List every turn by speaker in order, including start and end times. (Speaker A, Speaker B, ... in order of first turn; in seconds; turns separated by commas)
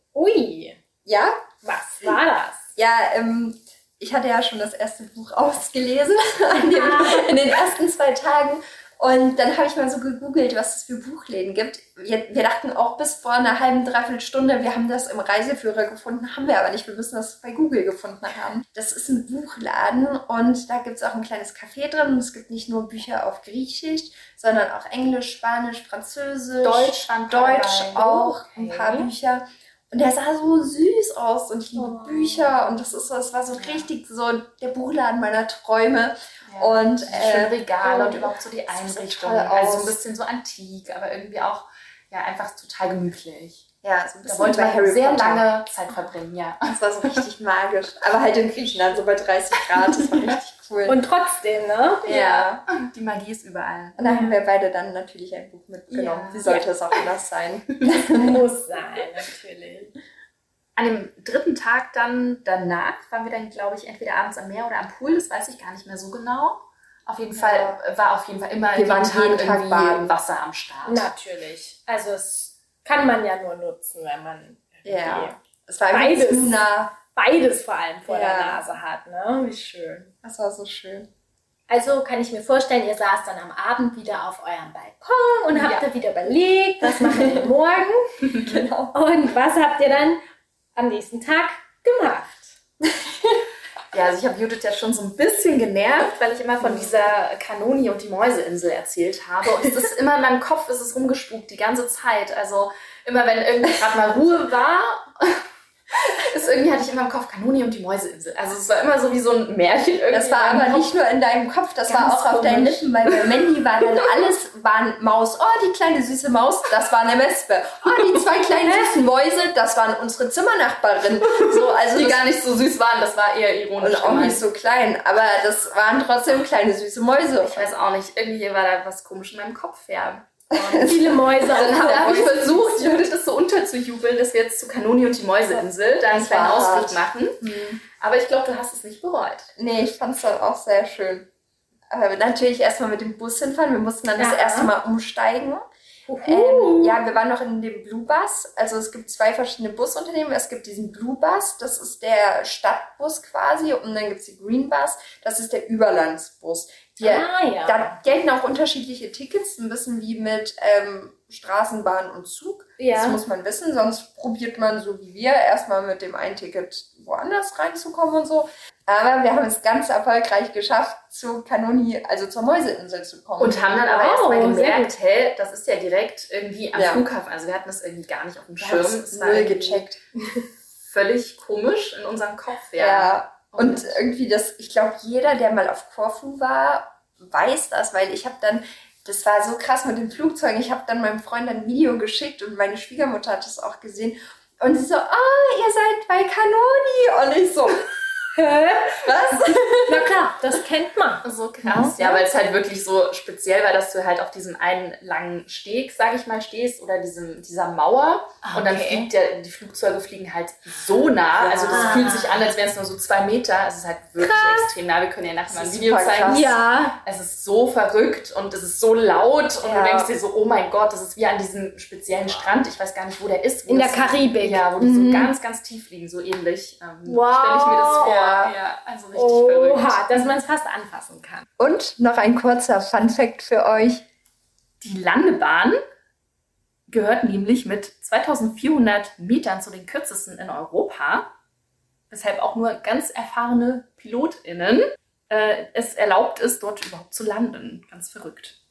Speaker A: 0.1-0.8, Speaker B: 1.1-1.4, Speaker A: 1.6-2.7, Speaker B: 2.8-40.0, Speaker A: 6.7-7.3, Speaker C: 26.6-29.1, Speaker A: 31.8-32.5, Speaker C: 33.5-33.9, Speaker C: 36.5-43.7, Speaker A: 37.8-38.2, Speaker B: 43.8-45.5, Speaker C: 44.2-47.2, Speaker B: 46.7-51.0, Speaker C: 49.8-50.2, Speaker A: 50.9-52.2, Speaker B: 52.1-52.6, Speaker C: 52.1-54.0, Speaker B: 54.0-58.4, Speaker A: 54.0-54.3, Speaker C: 55.9-57.1, Speaker A: 57.9-60.0, Speaker C: 60.8-71.1, Speaker B: 67.3-67.8, Speaker B: 68.7-70.2, Speaker A: 70.9-75.4, Speaker B: 74.8-77.0, Speaker A: 75.9-80.1, Speaker B: 78.1-78.6, Speaker B: 80.2-81.1, Speaker A: 81.7-88.1, Speaker C: 85.5-85.8, Speaker B: 86.9-87.5, Speaker B: 88.4-89.0, Speaker A: 88.9-90.2, Speaker A: 90.8-92.5, Speaker B: 93.0-93.4, Speaker C: 93.9-110.9, Speaker B: 96.6-97.0, Speaker B: 110.1-122.2, Speaker C: 111.9-113.3, Speaker A: 118.7-118.9, Speaker C: 121.2-124.4, Speaker B: 123.8-127.7, Speaker C: 127.4-131.0, Speaker B: 130.5-132.9, Speaker A: 130.8-133.0, Speaker C: 131.5-137.4, Speaker B: 136.1-137.8, Speaker C: 138.0-139.5, Speaker B: 139.6-141.3, Speaker B: 141.9-145.7, Speaker A: 144.2-144.7, Speaker A: 146.1-147.0, Speaker B: 146.2-173.8, Speaker A: 157.0-158.0, Speaker A: 162.8-163.2, Speaker C: 173.4-179.8, Speaker A: 173.9-174.9, Speaker B: 176.7-177.0, Speaker B: 178.6-180.0, Speaker C: 180.8-184.0, Speaker B: 182.8-197.8, Speaker A: 198.3-199.0, Speaker B: 198.9-200.2, Speaker A: 199.8-202.0, Speaker C: 201.2-230.3, Speaker B: 201.7-202.2, Speaker A: 208.4-209.1, Speaker B: 211.4-212.2, Speaker A: 211.7-212.4, Speaker A: 214.2-214.7, Speaker B: 215.5-216.6, Speaker A: 216.3-217.0, Speaker B: 219.6-220.1, Speaker A: 222.2-222.4, Speaker A: 223.7-225.3, Speaker A: 227.1-228.5, Speaker B: 227.9-228.5, Speaker A: 229.2-231.4, Speaker B: 231.6-234.1, Speaker C: 234.8-235.8, Speaker C: 236.9-241.3, Speaker C: 242.1-248.6